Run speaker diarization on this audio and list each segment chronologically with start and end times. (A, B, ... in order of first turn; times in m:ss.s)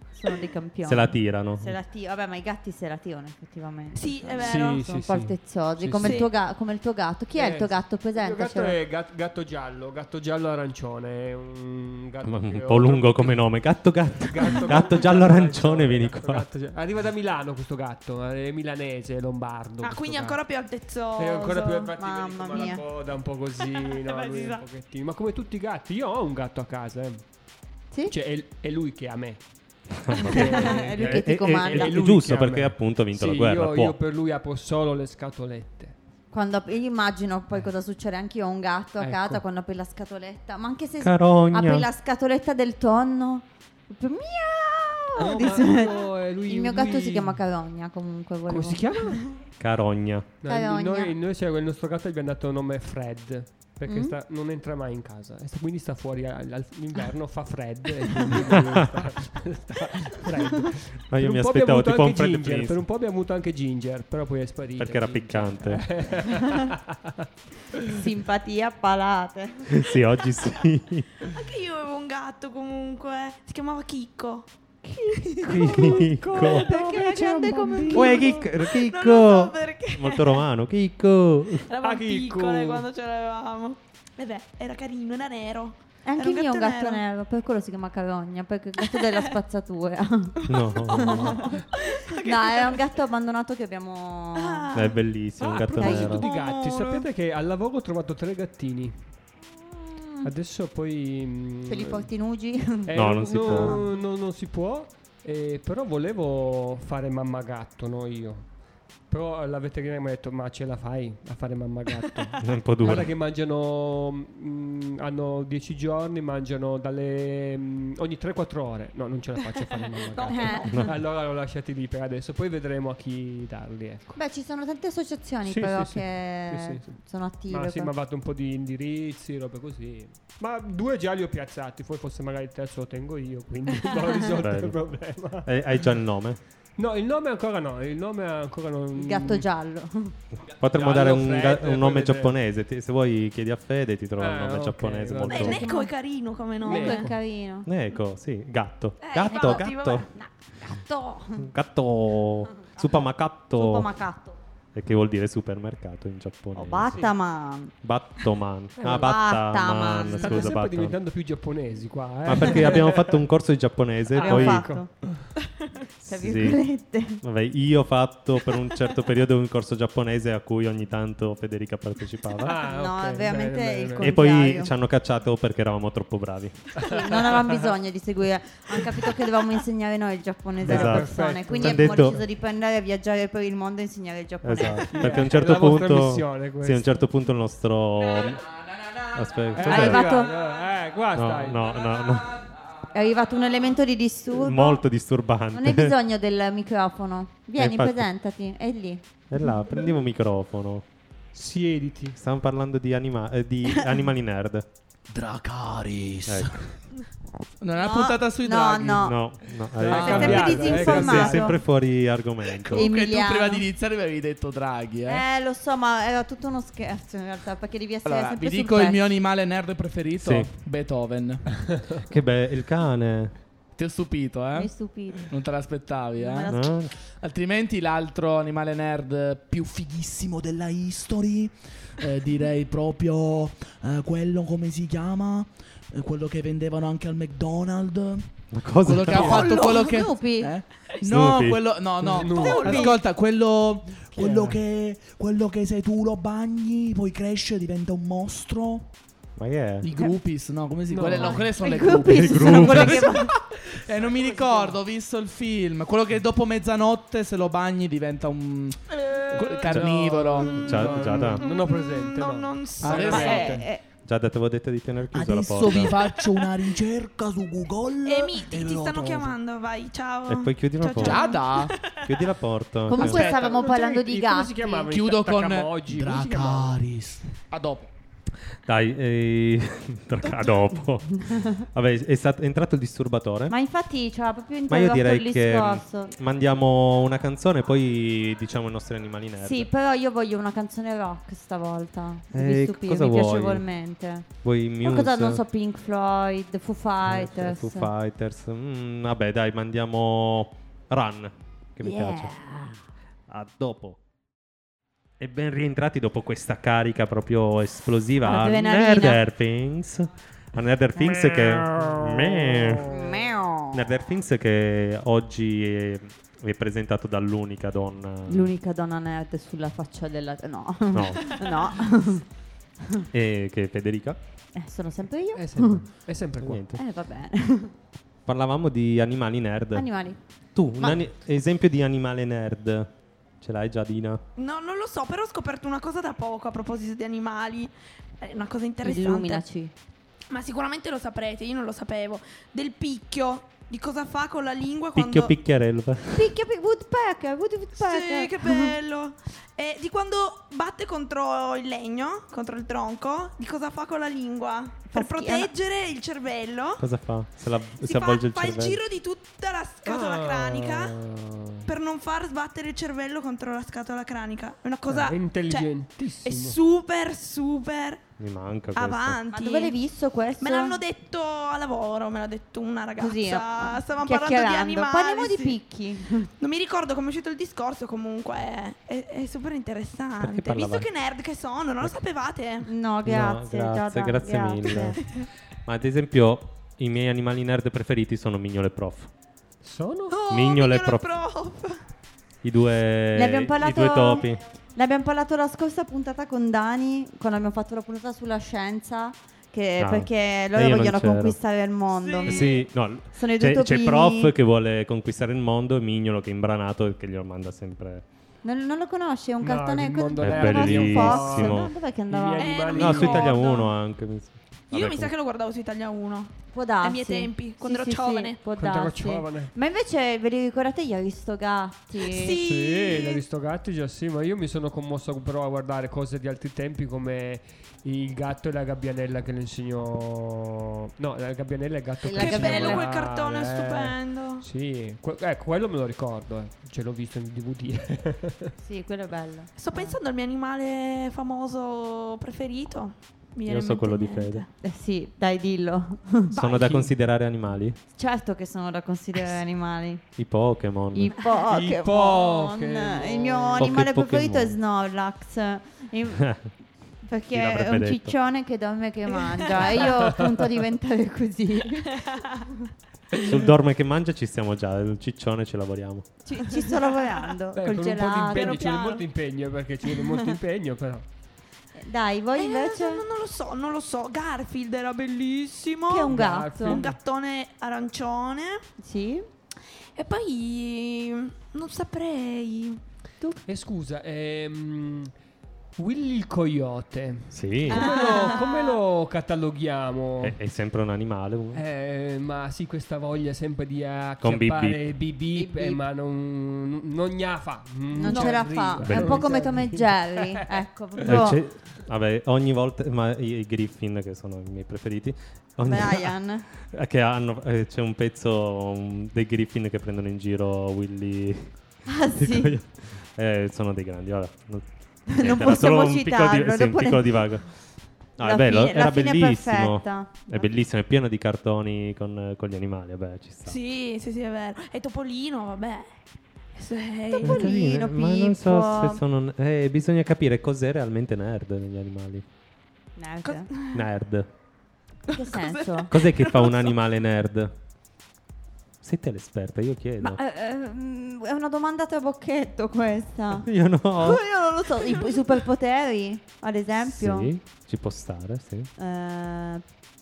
0:00.2-0:08.8 A
0:00.8-0:01.8 B
0:04.0-0:04.8 C
0:04.4-0:06.3 D
0:06.0-0:06.3 C
0:07.4-0:13.4 D
0:12.2-0:16.5 B
0:14.2-0:20.4 D
0:19.8-0:21.9 C
0:21.2-0:27.2 D
0:22.0-0:22.8 A
0:23.6-0:24.6 C
0:28.1-0:29.4 D
0:30.0-0:34.0 B
0:30.1-0:36.0 D
0:30.2-0:32.0 A
0:36.3-0:49.2 A
0:39.0-0:39.4 D
0:41.0-0:41.9 B
0:45.2-0:47.4 D
0:48.5-0:49.2 D
0:49.6-0:50.3 B
0:50.4-1:08.0 D
0:50.5-0:51.2 A
0:53.9-0:54.2 A
0:58.6-0:59.0 B
1:01.1-1:02.8 B
1:04.8-1:05.8 B
1:07.8-1:09.8 A
1:09.7-1:11.1 B
1:11.2-1:14.5 C
1:15.0-1:17.2 C
1:15.4-1:16.7 B
1:15.6-1:18.4 A
1:15.6-1:18.3 D
1:17.9-1:20.5 C
1:17.9-1:21.7 B
1:21.7-1:27.0 C
1:21.8-1:22.9 D
1:26.0-1:34.7 A
1:28.8-1:29.3 C
1:30.5-1:31.6 B
1:31.0-1:32.8 C
1:34.4-1:35.0 C
1:34.7-1:36.3 B
1:35.4-1:39.0 D
1:35.8-1:36.2 A
1:35.9-1:37.0 C
1:39.6-1:40.3 A
1:40.2-1:42.1 D
1:41.7-1:43.8 A
1:42.9-1:48.5 D
1:42.9-1:43.8 B
1:49.1-2:04.2 D
1:52.4-1:53.1 B
2:00.1-2:00.7 C
2:00.2-2:00.8 A
2:04.2-2:07.9 A
2:05.4-2:07.0 D
2:07.5-2:15.5 D
2:14.4-2:14.8 B
2:15.4-2:16.4 B
2:16.8-2:19.5 D
2:18.9-2:20.1 A
2:20.5-2:25.6 B
2:20.7-2:22.4 D
2:24.2-2:25.6 D
2:25.3-2:27.1 C
2:25.4-2:25.9 A
2:26.6-2:27.7 A
2:26.6-2:27.2 D
2:27.7-2:30.1 B
2:29.0-2:31.2 C
2:29.3-2:29.7 A
2:30.6-2:31.4 A
2:31.4-2:33.9 B
2:33.5-2:34.4 A
2:34.7-2:37.0 B
2:36.5-2:37.7 A
2:37.8-2:41.0 B
2:38.8-2:39.1 D
2:38.8-2:40.5 A
2:40.2-2:43.2 D
2:42.2-2:44.7 B
2:44.2-2:44.9 A
2:44.2-2:45.3 D
2:46.0-2:47.2 A
2:46.1-2:46.6 B
2:47.2-2:52.6 B
2:52.4-2:54.2 D
2:52.6-2:54.7 A
2:54.0-2:56.7 B
2:56.8-2:57.7 D
2:56.8-3:05.2 A
3:00.6-3:02.2 D
3:00.7-3:02.2 B
3:04.4-3:08.5 B
3:04.9-3:07.0 D
3:09.1-3:10.1 B
3:09.5-3:11.7 D
3:09.6-3:10.4 A
3:11.1-3:12.4 B
3:12.9-3:14.8 A
3:14.4-3:16.0 B
3:15.5-3:19.0 A
3:17.6-3:18.1 B
3:19.3-3:20.8 B
3:21.3-3:22.2 D
3:22.2-3:24.7 B
3:25.1-3:26.7 E
3:26.3-3:26.7 B
3:27.6-3:29.2 E
3:27.8-3:29.2 A
3:29.0-3:32.9 B
3:29.8-3:31.6 D
3:29.9-3:31.6 A
3:32.4-3:35.2 E
3:32.7-3:33.7 A
3:35.1-3:39.0 A
3:38.0-3:41.5 E
3:40.2-3:40.5 B
3:41.6-3:42.0 D
3:42.0-3:43.4 B
3:43.8-3:46.5 E
3:44.6-3:45.3 A
3:46.2-3:46.7 A
3:46.5-3:46.9 B
3:47.1-3:58.3 E
3:58.5-3:59.6 B
3:58.8-4:08.9 E
3:59.1-3:59.5 D
3:59.2-4:00.5 A
3:59.3-4:00.0 C
4:01.1-4:01.6 B
4:02.0-4:02.9 D
4:02.2-4:02.9 C
4:02.4-4:03.0 A
4:04.1-4:04.6 D
4:09.4-4:09.9 B
4:09.8-4:21.0 E
4:10.9-4:11.8 D
4:11.2-4:13.4 A
4:12.1-4:13.2 B
4:19.1-4:23.7 D
4:19.7-4:21.4 B
4:21.2-4:23.6 C
4:22.8-4:23.6 E
4:23.0-4:23.8 A
4:24.0-4:26.0 B
4:25.1-4:29.4 E
4:26.0-4:26.5 C
4:28.0-4:32.3 C
4:30.3-4:31.4 B
4:31.0-4:31.8 E
4:32.0-4:33.4 B
4:32.9-4:34.9 A
4:32.9-4:36.8 D
4:34.9-4:37.9 E
4:38.6-4:43.6 B
4:43.5-4:46.2 A
4:44.7-4:49.7 B
4:49.4-4:54.3 A
4:52.3-4:53.6 B
4:54.4-4:55.4 B
4:54.8-4:57.9 A
4:57.0-5:02.3 B
5:01.8-5:02.8 A
5:03.3-5:04.0 B
5:05.2-5:12.9 B
5:08.2-5:09.2 A
5:11.0-5:13.2 D
5:12.8-5:13.9 A
5:13.7-5:18.5 B
5:18.3-5:22.2 A
5:20.9-5:21.4 B
5:23.1-5:24.2 B
5:24.6-5:25.9 A
5:25.3-5:26.6 D
5:26.4-5:26.8 B
5:26.7-5:27.7 A
5:28.3-5:29.9 B
5:29.7-5:30.2 A
5:30.6-5:34.2 B
5:34.4-5:39.4 C
5:38.8-5:39.7 A
5:40.3-5:45.4 C
5:45.0-5:46.3 B
5:46.1-5:48.8 A
5:47.8-5:56.8 C
5:54.9-5:55.5 A
5:56.8-5:58.8 B
5:57.8-6:01.0 C
5:59.8-6:01.7 D
6:01.6-6:08.0 C
6:04.9-6:06.6 D
6:08.2-6:09.2 B
6:08.8-6:09.8 C
6:09.3-6:10.8 A
6:10.4-6:15.6 C
6:13.0-6:16.3 A
6:16.4-6:22.7 C
6:20.2-6:20.9 B
6:22.6-6:25.0 A
6:23.0-6:25.1 B
6:25.7-6:29.1 B
6:29.6-6:30.2 D
6:30.1-6:31.8 C
6:30.3-6:31.1 B
6:32.4-6:34.4 B
6:33.2-6:42.5 A
6:39.8-6:41.4 B
6:42.0-6:42.6 C
6:42.3-6:48.0 B
6:43.1-6:44.3 A
6:48.4-6:52.6 A
6:49.4-6:53.4 D
6:50.2-6:51.7 B
6:52.4-6:53.7 C
6:52.8-6:55.1 B
6:54.7-6:58.4 C
6:56.5-7:02.4 A
6:58.5-6:59.5 D
7:02.0-7:03.2 C
7:02.3-7:18.5 D
7:12.0-7:12.9 A
7:12.2-7:14.5 C
7:18.6-7:20.0 A
7:19.6-7:24.5 C
7:23.5-7:24.5 B
7:24.6-7:26.3 A
7:26.3-7:26.7 C
7:26.3-7:27.8 B
7:28.0-7:30.0 A
7:30.2-7:31.1 B
7:30.9-7:36.2 A
7:31.5-7:33.7 D
7:33.6-7:34.6 B
7:36.2-7:36.5 B
7:37.0-7:42.2 A
7:37.3-7:38.2 B
7:39.8-7:40.3 D
7:41.9-7:42.5 C
7:43.2-7:46.1 B
7:46.3-7:48.6 A
7:47.5-7:51.1 D
7:48.3-7:49.0 C
7:51.8-7:53.0 A
7:52.4-7:58.7 C
7:55.9-7:56.8 A
7:56.0-7:57.0 D
7:58.8-7:59.3 A
8:00.0-8:02.8 C
8:03.5-8:05.1 D
8:05.8-8:10.4 D
8:07.3-8:08.2 B
8:07.7-8:08.8 A
8:10.2-8:11.6 B
8:11.5-8:21.2 D
8:14.2-8:15.0 B
8:15.3-8:15.8 A
8:17.9-8:21.4 A
8:18.0-8:18.5 C
8:18.8-8:19.2 B
8:21.0-8:37.5 B
8:25.6-8:26.5 A
8:31.9-8:32.6 A
8:35.1-8:37.3 A
8:38.2-8:43.6 B
8:38.2-8:40.5 A
8:43.5-8:45.9 C
8:46.6-8:47.4 C
8:47.2-8:49.0 A
8:47.2-8:52.2 B
8:53.0-8:53.5 A
8:53.2-8:53.9 C
8:53.7-8:54.3 B
8:55.1-8:55.9 A
8:55.1-8:56.8 C
8:55.9-8:57.5 B
8:58.8-9:00.2 B
9:00.0-9:07.3 A
9:03.4-9:04.2 B
9:04.8-9:05.3 C
9:06.8-9:08.7 B
9:08.8-9:09.6 A